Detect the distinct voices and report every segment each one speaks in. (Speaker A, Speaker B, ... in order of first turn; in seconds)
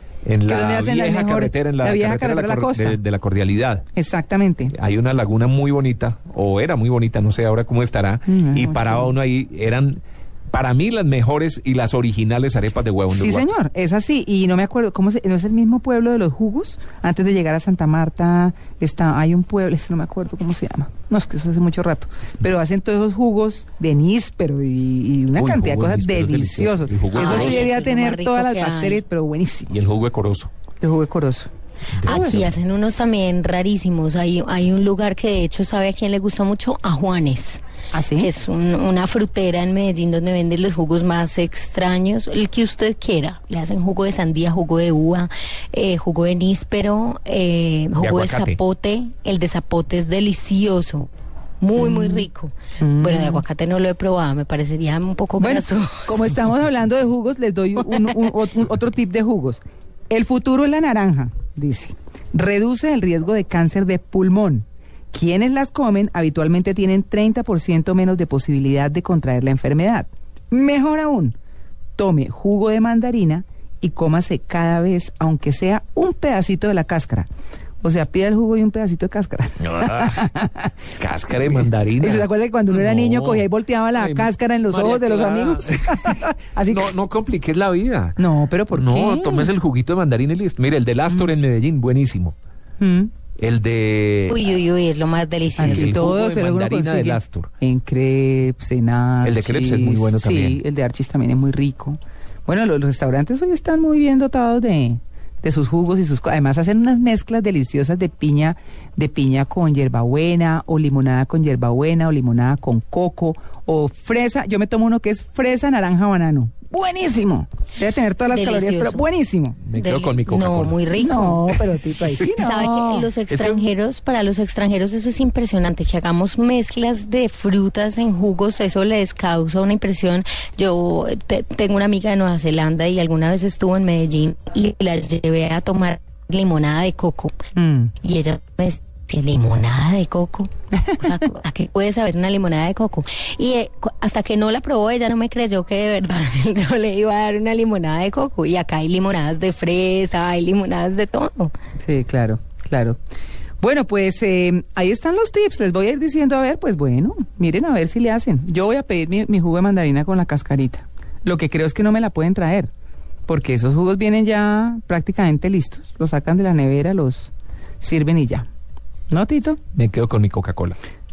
Speaker A: 0.2-3.9, 4.7-13.5, 25.4-27.7, 29.7-30.5, 31.9-32.5, 48.0-48.6, 79.6-80.3, 81.0-88.2, 88.7-92.4, 93.4-94.5, 95.6-97.5, 99.2-100.6, 119.6-120.8, 123.3-123.7, 169.7-170.8
Speaker B: 0.5-3.0, 4.0-4.7, 8.3-9.1, 13.1-29.9, 30.8-31.5, 32.1-32.5, 37.9-38.3, 51.8-52.3, 52.8-53.4, 55.4-71.4, 72.0-77.3, 77.8-80.7, 81.5-86.9, 88.2-89.5, 92.8-93.1, 95.6-119.6, 121.0-123.1, 137.6-137.9, 151.8-153.0, 153.6-162.7, 163.3-168.5, 169.1-169.6
Speaker C: 27.1-29.0, 32.0-37.6, 38.2-51.1, 51.6-56.4, 94.3-96.1, 118.3-119.1, 119.7-121.6, 122.4-137.3, 138.0-151.5